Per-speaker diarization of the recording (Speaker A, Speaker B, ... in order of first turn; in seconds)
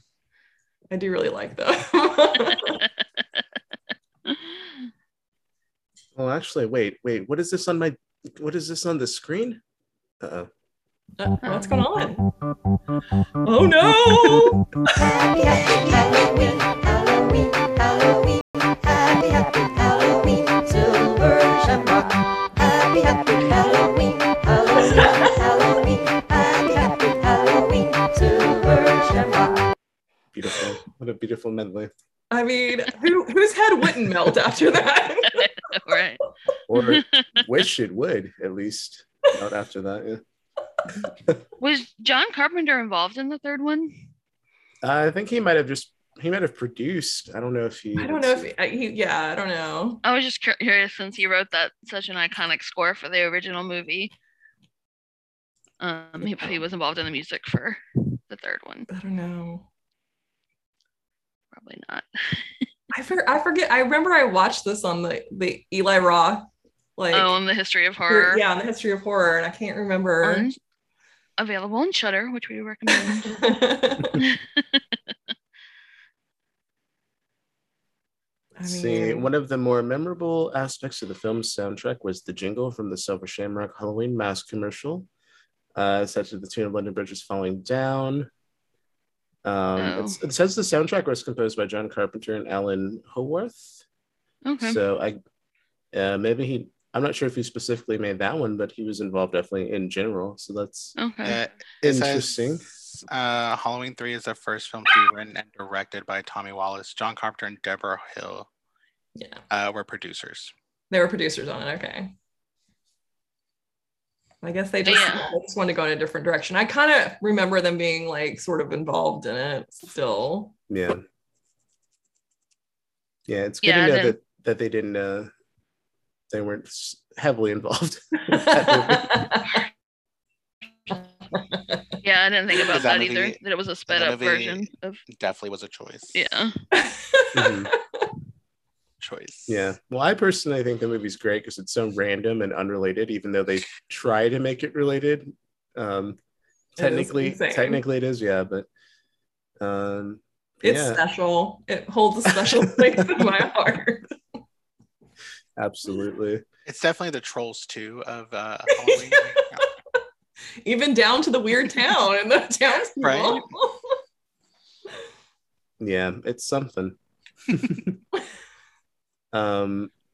Speaker A: 0.9-2.8, 11.2-12.2, 13.4-14.6, 32.3-35.5, 48.0-50.0, 56.2-56.6, 58.9-59.6, 62.9-67.3, 68.1-70.5, 72.9-74.2, 78.6-79.3, 109.2-109.4, 110.9-112.1, 114.4-120.5, 128.3-129.6, 131.3-131.8, 136.7-138.1, 146.8-147.8, 150.6-154.1, 158.8-159.3, 160.6-163.9
Speaker B: 4.3-4.6, 11.4-11.7, 35.3-36.2, 36.7-37.4, 41.6-44.0, 50.0-54.1, 55.8-58.9, 61.5-62.6, 67.1-68.4, 70.2-70.5, 71.4-73.3, 74.2-74.8, 89.8-90.2, 94.5-94.8, 101.0-101.4, 114.8-115.3, 123.6-124.2, 132.0-135.0, 136.1-136.5
Speaker C: 6.1-9.6, 10.2-10.5, 30.3-31.9, 36.7-40.2, 44.8-48.5, 78.6-85.1, 85.7-88.3, 89.4-93.8, 94.6-95.2, 95.9-100.9, 101.8-102.7, 120.7-121.0, 123.3-125.3, 126.3-129.3, 137.3-137.7, 139.5-146.2, 146.7-148.7, 149.6-151.0, 152.3-153.3, 155.6-156.4, 165.8-168.0, 169.3-169.9
Speaker D: 14.9-29.6
Speaker E: 101.2-108.5, 109.5-110.5, 132.7-136.2, 139.0-139.6, 156.7-159.7, 163.0-163.4